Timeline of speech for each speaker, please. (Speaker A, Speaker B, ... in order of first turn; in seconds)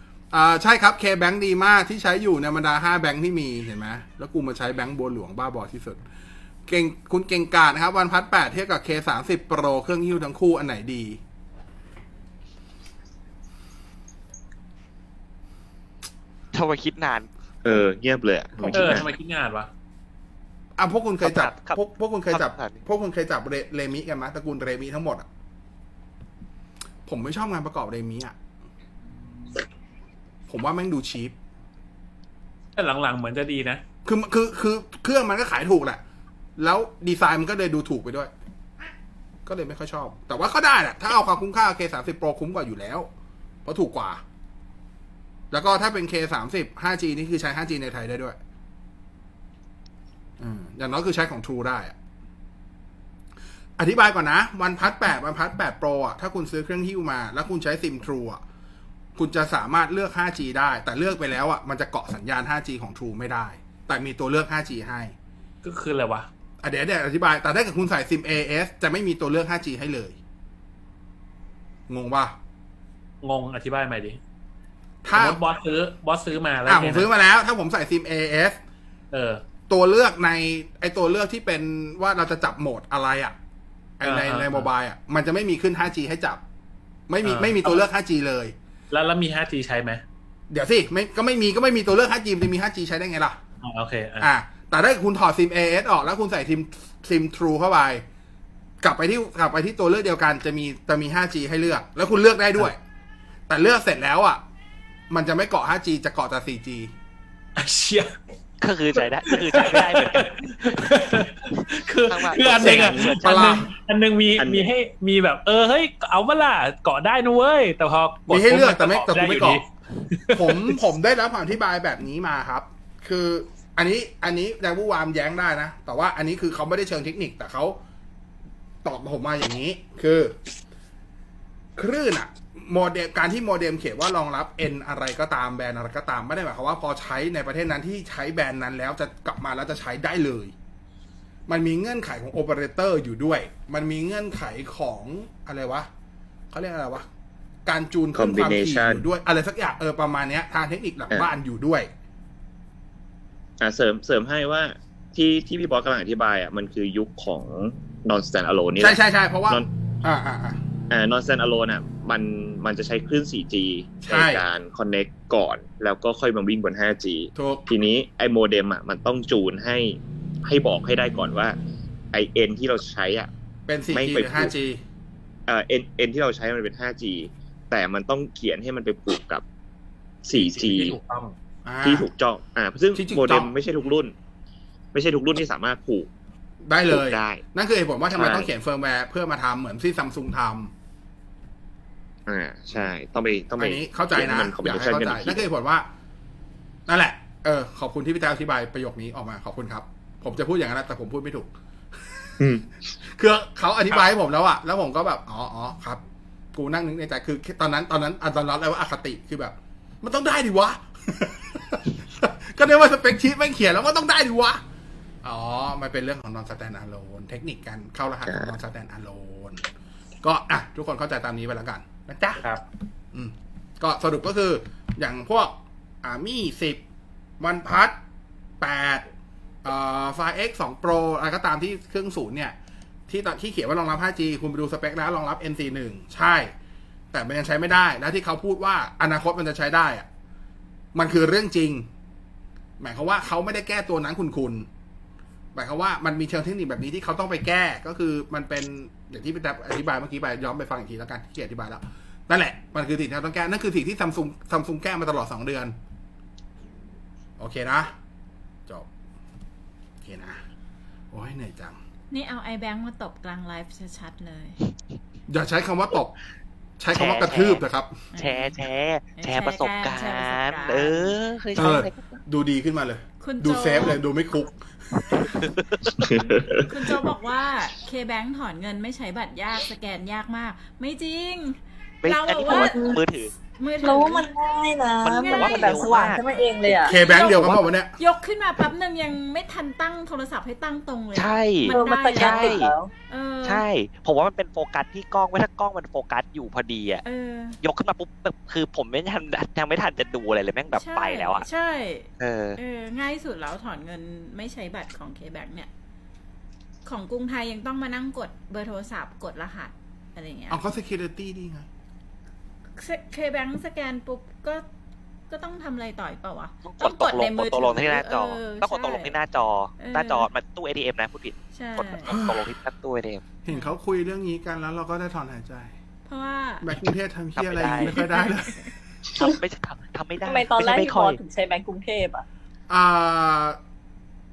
Speaker A: 0.3-6.0, 6.7-11.2, 20.8-25.3, 27.1-28.4, 30.5-31.4, 34.0-36.0, 36.6-38.3, 39.5-43.1, 43.6-44.2, 45.5-48.4, 50.4-52.0, 53.8-58.4, 59.2-65.1, 66.6-70.2, 71.9-72.4, 75.0-75.4, 76.7-78.6, 79.7-83.4, 84.0-86.4, 87.1-88.5, 90.5-93.4, 94.2-98.0, 98.8-102.8, 103.5-104.4, 105.1-106.9, 112.6-113.7, 118.3-119.6, 120.3-127.8, 128.8-130.4, 131.8-140.5, 141.5-145.9, 146.5-147.1, 147.7-151.9, 158.8-160.6, 164.0-164.4, 167.3-167.7, 173.7-174.8, 181.7-182.1, 182.9-183.5, 186.7-190.7, 193.6-195.9, 196.9-201.5, 203.1-206.0, 206.5-214.6, 215.2-219.7, 220.2-222.4, 223.1-226.8, 227.4-228.0, 228.6-229.1, 229.6-232.6, 233.1-236.5, 237.1-240.1, 240.9-241.9, 242.8-244.7, 245.5-255.8, 257.4-257.9, 260.0-260.4, 261.1-261.8, 265.3-266.1, 266.8-268.1, 271.6-275.2, 286.9-287.9, 310.5-311.7, 322.1-322.4, 323.4-325.7, 326.6-328.7, 332.7-333.6
Speaker B: 16.5-17.3, 21.2-22.8, 108.6-110.4, 112.1-113.6, 266.9-267.6, 268.2-272.0, 275.4-276.0, 282.0-283.3, 285.0-286.8, 291.1-292.7, 293.4-297.0, 297.6-301.5, 302.2-302.6, 316.6-323.2, 327.4-328.0, 329.1-331.2
Speaker C: 17.6-19.1, 112.8-113.1, 114.4-114.7, 148.2-149.1, 153.6-159.7, 160.9-171.6, 172.1-173.3, 173.9-174.5, 175.5-179.4, 180.2-181.0, 181.8-184.1, 184.9-186.1, 186.9-187.4, 188.2-188.5, 192.3-195.4, 202.4-202.7, 218.3-218.5, 276.0-277.0
Speaker D: 18.7-19.7, 32.8-33.8, 65.6-66.3, 73.2-74.2, 75.1-77.1, 79.1-79.4, 84.0-84.7, 87.2-87.9, 88.9-90.0, 93.6-94.3, 107.6-108.2, 109.0-120.8, 180.3-181.4
Speaker E: 262.1-264.6, 268.1-271.2, 273.2-274.0, 276.4-283.0, 283.5-284.3, 285.2-286.0, 286.9-293.6, 297.0-297.6, 300.8-305.7, 306.9-310.6, 312.8-314.6, 315.3-319.2, 319.8-320.3, 321.5-322.2, 326.1-326.7, 327.8-328.7
Speaker F: 282.4-283.0, 283.8-287.0, 291.7-292.9, 330.2-332.2